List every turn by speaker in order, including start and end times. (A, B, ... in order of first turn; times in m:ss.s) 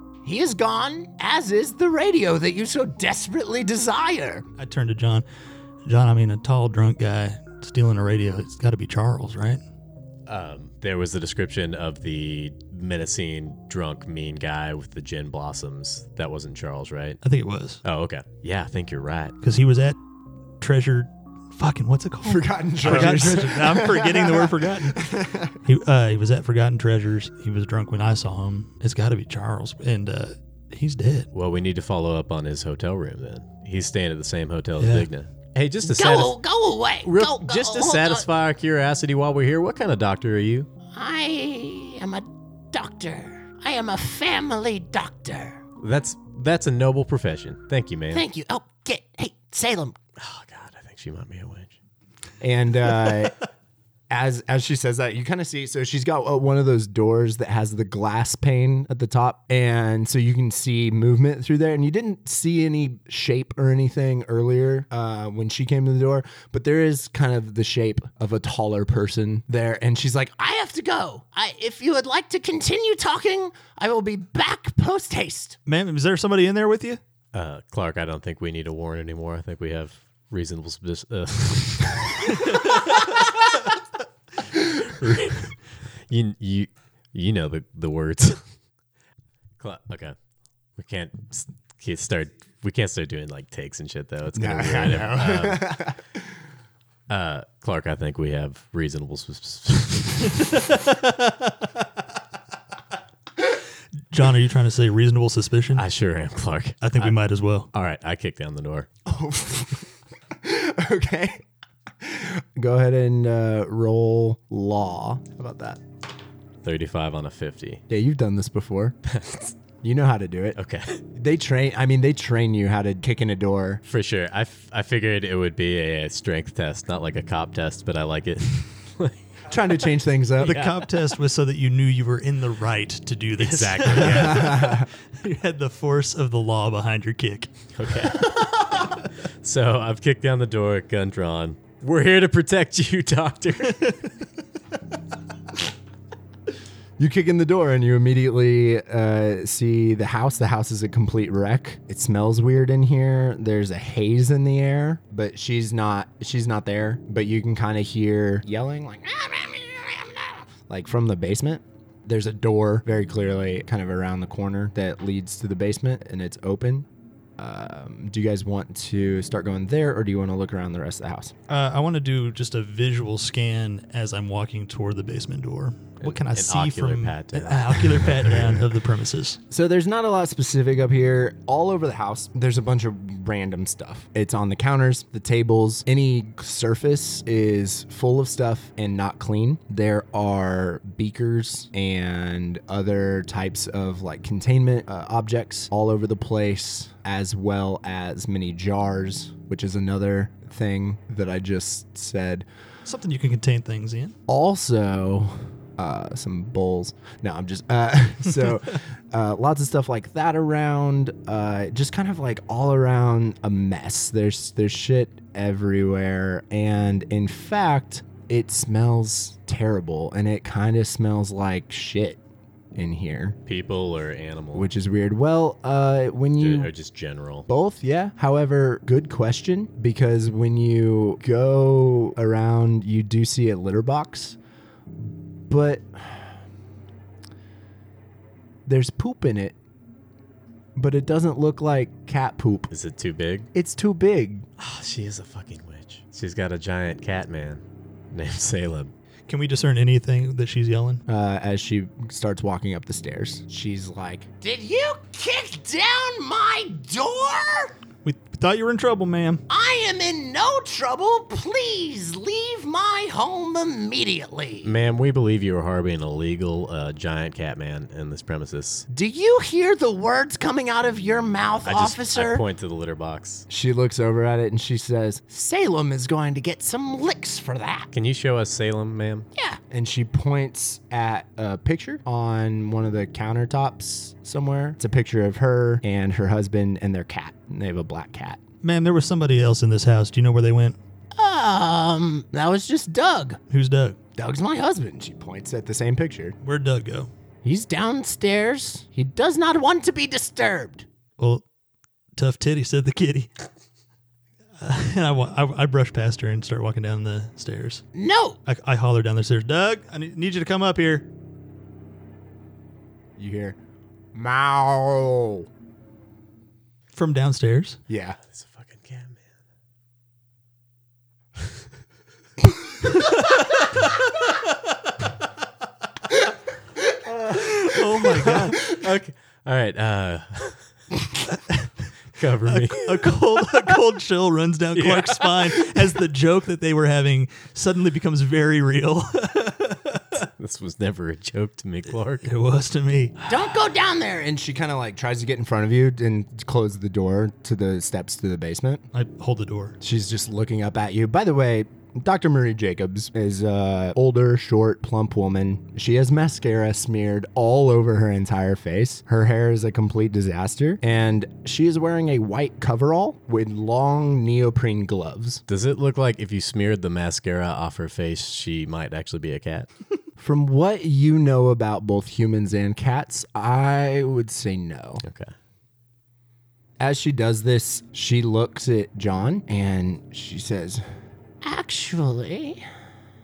0:00.2-0:04.4 A
0:04.6-0:05.2 B
0:05.8-0:09.6 B
0:10.3-0:17.2 C
0:17.2-0:17.8 B
0:17.8-0:19.3 C
0:19.4-0:20.0 B
0:20.6-0:25.0 B
0:22.2-0:25.6 D
0:22.8-0:23.2 C
0:25.6-0:31.3 B
0:31.3-0:36.4 C
0:34.8-0:35.1 B
0:35.8-0:38.2 A
0:37.0-0:40.7 C
0:40.9-0:45.6 A
0:45.8-0:48.2 C
0:48.1-0:50.0 A
0:50.2-0:51.7 C
0:52.4-0:53.3 D
0:54.1-1:10.4 D
1:10.2-1:15.6 A
1:15.6-1:17.0 B
1:17.3-1:23.0 C
1:24.8-1:25.6 C
1:26.1-1:28.4 C
1:29.6-1:30.2 C
1:30.8-1:35.8 C
1:34.3-1:36.0 D
1:37.1-1:40.5 C
1:40.4-1:41.7 B
1:44.1-1:45.8 B
1:45.7-1:47.2 C
1:46.8-1:47.7 B
1:47.7-1:48.9 C
1:49.0-1:49.8 D
1:50.4-1:51.4 D
1:52.0-1:55.8 D
1:56.6-1:57.8 C
1:57.9-1:59.0 D
1:59.1-1:59.5 C
1:59.8-2:00.6 D
2:00.6-2:01.0 C
2:01.1-2:03.8 D
2:03.8-2:09.2 C
2:09.5-2:10.6 D
2:10.4-2:17.5 B
2:10.5-2:10.8 C
2:13.4-2:14.6 C
2:14.0-2:14.9 D
2:17.7-2:24.0 C
2:27.0-2:39.1 D
2:39.0-2:40.5 A
2:40.6-2:46.9 D
2:47.4-2:51.3 D
2:51.5-2:59.4 B
2:56.0-2:58.5 C
2:59.5-3:22.5 D
3:22.8-3:24.2 B
3:24.3-3:42.2 D
3:42.7-3:43.4 D
3:43.5-3:44.7 C
3:44.5-3:46.7 D
3:46.4-3:47.5 C
3:47.5-3:54.4 D
3:55.5-3:56.4 D
3:58.6-3:59.6 D
4:00.8-4:02.7 D
4:02.7-4:03.5 C
4:03.5-4:04.4 D
4:04.6-4:08.9 C
4:09.3-4:11.0 B
4:11.1-4:14.3 D
4:14.4-4:17.8 A
4:18.0-4:19.4 B
4:19.5-4:24.7 A
4:24.6-4:28.8 C
4:28.9-4:32.4 A
4:31.6-4:33.4 C
4:33.5-4:35.3 D
4:35.3-4:37.9 A
4:37.9-4:39.3 C
4:39.7-4:48.4 D
4:48.6-4:50.8 B
4:51.1-4:53.4 A
4:53.5-4:54.0 B
4:54.2-4:54.8 A
4:54.6-4:56.4 D
4:56.4-4:57.1 B
4:57.4-5:00.8 A
5:01.2-5:01.4 B
5:02.1-5:03.3 B
5:04.6-5:07.8 B
5:07.9-5:08.4 A
5:08.4-5:11.0 B
5:13.2-5:13.6 D
5:14.1-5:15.5 D
5:16.9-5:17.8 B
5:17.9-5:18.2 D
5:18.3-5:19.2 C
5:22.9-5:24.2 B
5:27.3-5:28.6 B
5:28.2-5:30.6 C
5:31.3-5:31.7 B
5:32.1-5:33.1 C
5:32.4-5:40.2 B
5:34.7-5:35.7 C
5:40.4-5:42.3 C
5:42.2-5:43.2 B
5:43.3-5:44.2 A
5:44.1-5:48.8 D
5:48.9-5:49.8 B
5:49.8-6:05.4 D
6:05.5-6:09.7 C
6:10.2-6:15.0 D
6:15.0-6:15.3 C
6:16.8-6:20.8 D
6:21.4-6:22.6 A